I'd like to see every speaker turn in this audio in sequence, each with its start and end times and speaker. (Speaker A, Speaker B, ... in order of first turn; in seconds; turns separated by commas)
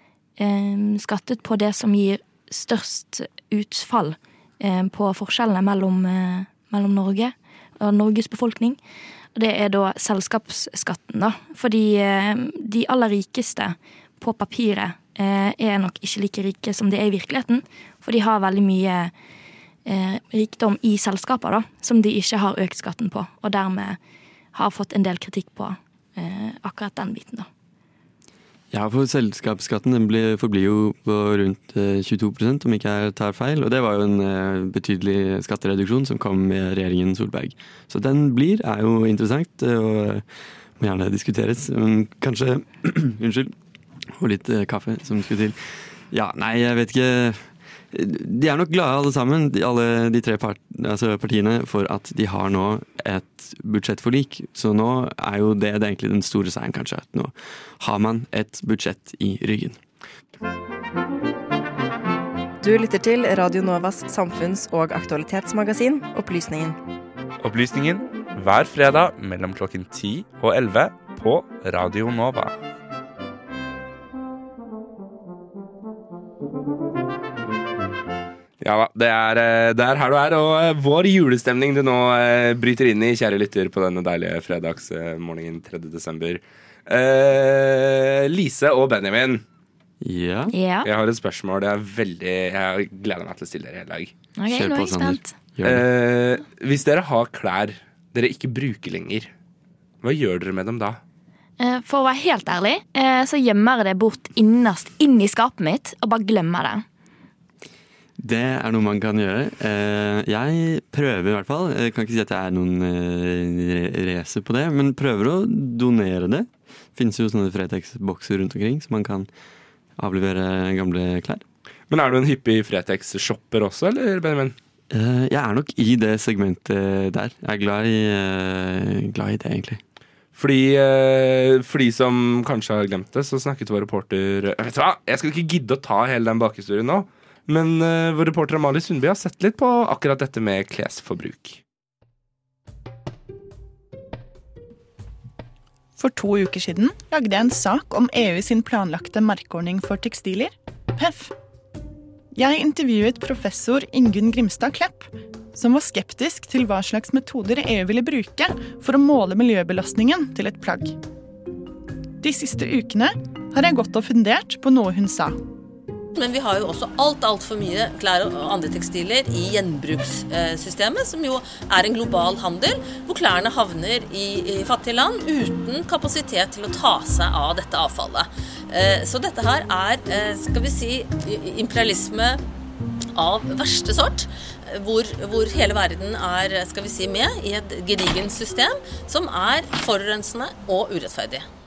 Speaker A: 0.4-8.8, Speaker A: 9.3-19.1, Speaker A: 19.9-24.0, Speaker A: 24.5-27.5, Speaker B: 28.7-40.2, Speaker B: 40.8-43.5, Speaker B: 44.1-59.8, Speaker C: 62.6-66.8, Speaker D: 67.4-72.5, Speaker E: 78.6-89.4, Speaker B: 90.0-90.5, Speaker A: 90.5-90.9, Speaker E: 90.8-94.1, Speaker A: 94.4-95.3, Speaker B: 94.5-95.9, Speaker E: 95.6-99.3, Speaker E: 100.0-101.0, Speaker A: 101.6-106.8, Speaker B: 108.2-119.3, Speaker B: 120.0-121.4, Speaker E: 121.9-124.5, Speaker B: 124.9-129.8, Speaker E: 130.3-141.6, Speaker F: 146.0-151.3, Speaker F: 152.3-161.0, Speaker F: 162.2-165.3, Speaker G: 166.1-182.4, Speaker G: 183.1-191.4